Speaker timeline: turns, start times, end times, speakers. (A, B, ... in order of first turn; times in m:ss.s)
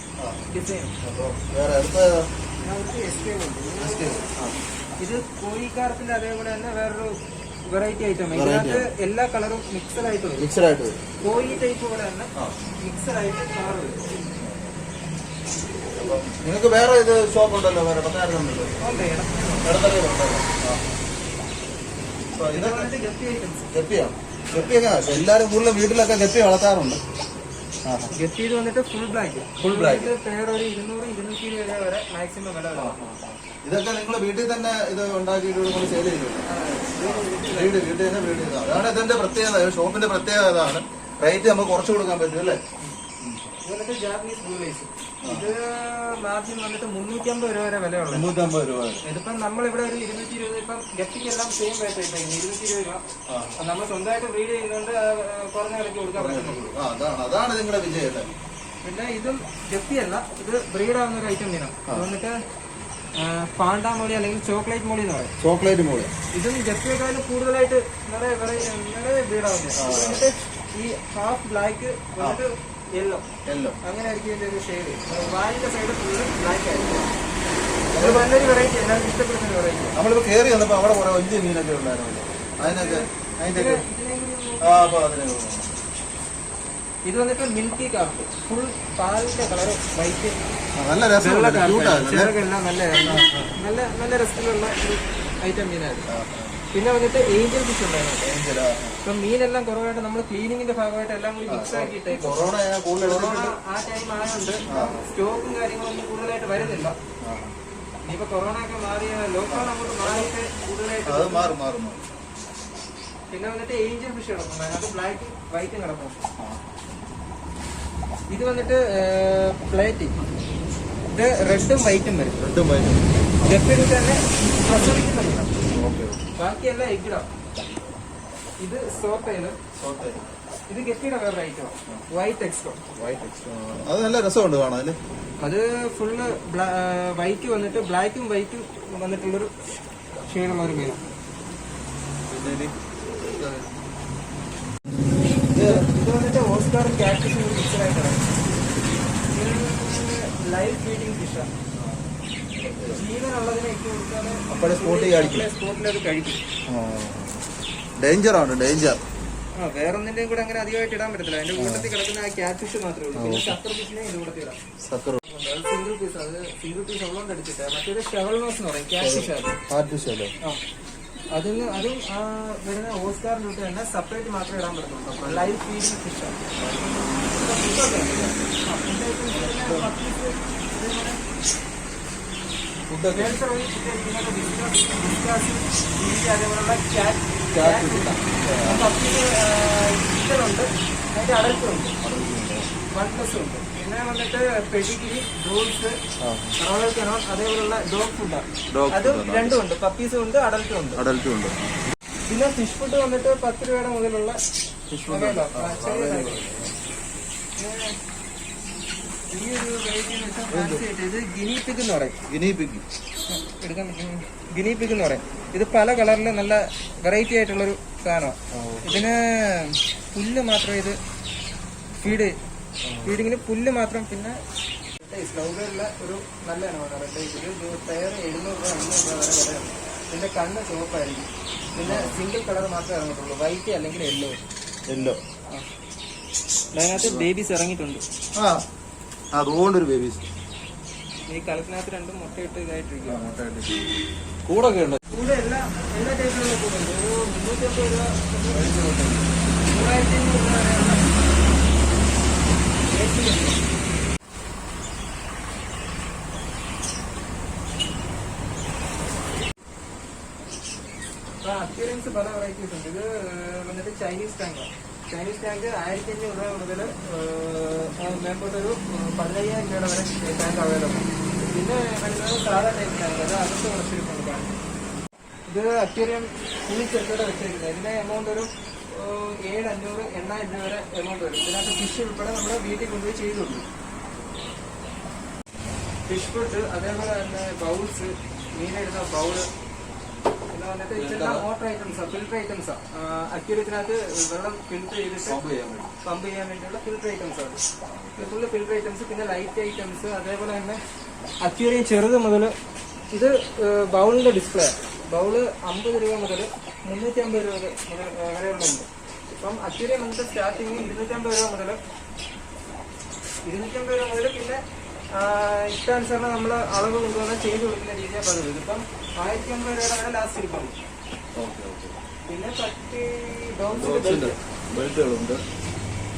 0:00.2-0:00.4 A
0:00.5-0:01.0 B
0:01.0-0:02.3 A
0:02.6-0:04.3 B
0:03.8-0:04.6 A
0:05.0-0:07.2 B
0:07.7-0:10.5 B
0:08.3-0:08.9 A
0:10.4-0:11.0 A
0:11.2-0:14.0 B
0:14.4-0:14.7 A
0:15.9-0:18.8 A
0:18.8-0:19.7 B
0:19.6-0:20.8 A
0:22.3-0:22.9 A
0:22.5-0:23.7 B
0:23.7-0:27.0 A
0:27.8-0:28.1 A
0:28.1-0:33.0 B
0:29.6-0:30.1 A
0:32.7-0:36.4 A
0:36.5-0:37.8 B
0:37.0-0:42.6 A
0:43.6-0:48.3 B
0:45.2-0:45.6 A
0:48.1-0:49.0 A
0:49.0-0:53.0 B
0:53.3-0:53.6 A
0:53.6-0:56.6 B
0:56.1-0:58.3 A
0:58.8-1:02.4 B
1:03.1-1:05.3 B
1:05.4-1:06.1 A
1:06.3-1:13.2 B
1:09.8-1:10.3 A
1:13.4-1:13.8 A
1:13.8-1:17.1 B
1:17.9-1:18.4 A
1:17.9-1:20.0 B
1:20.0-1:23.8 A
1:22.6-1:24.8 B
1:24.6-1:25.7 A
1:27.0-1:30.4 B
1:30.8-1:32.3 A
1:31.2-1:36.1 B
1:33.0-1:33.5 A
1:36.1-1:36.6 A
1:36.7-1:38.3 B
1:38.2-1:39.0 A
1:39.0-1:47.0 B
1:41.5-1:43.5 A
1:44.7-1:45.0 A
1:46.6-1:47.5 A
1:48.0-1:51.5 B
1:49.5-1:50.3 A
1:51.0-1:52.0 A
1:53.3-1:56.2 B
1:58.3-2:00.2 B
2:01.1-2:02.4 B
2:02.4-2:03.6 A
2:03.4-2:05.5 B
2:05.7-2:06.2 A
2:06.4-2:07.3 B
2:08.6-2:09.6 B
2:09.8-2:10.2 A
2:10.7-2:12.8 B
2:13.0-2:15.0 A
2:15.4-2:19.5 B
2:20.3-2:21.0 B
2:22.3-2:23.7 A
2:25.5-2:25.8 A
2:25.6-2:28.3 B
2:29.3-2:31.5 B
2:31.8-2:33.0 A
2:32.9-2:36.4 B
2:34.5-2:35.5 A
2:36.7-2:37.4 A
2:38.0-2:39.0 A
2:39.6-2:44.6 B
2:41.6-2:41.9 A
2:43.1-2:43.6 A
2:44.8-2:45.2 A
2:45.2-2:49.6 B
2:49.0-2:50.3 A
2:51.3-2:56.4 B
2:55.2-2:55.5 A
2:56.6-2:57.3 A
2:57.3-3:01.2 B
2:59.3-2:59.9 A
3:02.9-3:03.4 A
3:03.1-3:11.9 B
3:07.5-3:09.0 A
3:12.0-3:12.7 A
3:12.9-3:15.9 B
3:16.2-3:16.6 A
3:16.6-3:21.0 B
3:18.7-3:19.6 A
3:21.0-3:21.6 A
3:22.3-3:24.4 B
3:24.9-3:26.8 A
3:25.1-3:26.4 B
3:27.6-3:28.0 B
3:29.3-3:32.2 B
3:30.5-3:30.8 A
3:32.3-3:32.8 A
3:33.3-3:41.0 B
3:38.5-3:39.2 A
3:42.0-3:42.4 B
3:42.8-3:43.2 A
3:43.0-3:44.4 B
3:45.0-3:54.4 B
3:51.8-3:52.1 A
3:54.9-3:55.2 A
3:56.7-3:58.0 B
3:56.9-3:57.3 A
3:58.4-3:58.6 A
3:59.3-4:00.2 A
4:01.3-4:03.3 B
4:03.0-4:03.9 A
4:04.4-4:05.0 A
4:05.1-4:08.6 B
4:08.5-4:09.3 A
4:09.7-4:11.2 B
4:12.8-4:13.6 B
4:21.4-4:34.5 B
4:35.5-4:43.6 B
4:46.1-4:49.5 B
4:50.5-4:55.4 B
4:50.9-4:51.5 A
4:55.2-4:55.9 A
4:56.0-4:57.6 B
4:57.8-4:58.3 A
4:58.2-5:00.8 B
5:01.4-5:02.5 B
5:03.1-5:11.8 B
5:13.4-5:14.6 B
5:15.1-5:20.8 B
5:21.4-5:21.9 A
5:22.3-5:24.4 B
5:23.7-5:25.4 A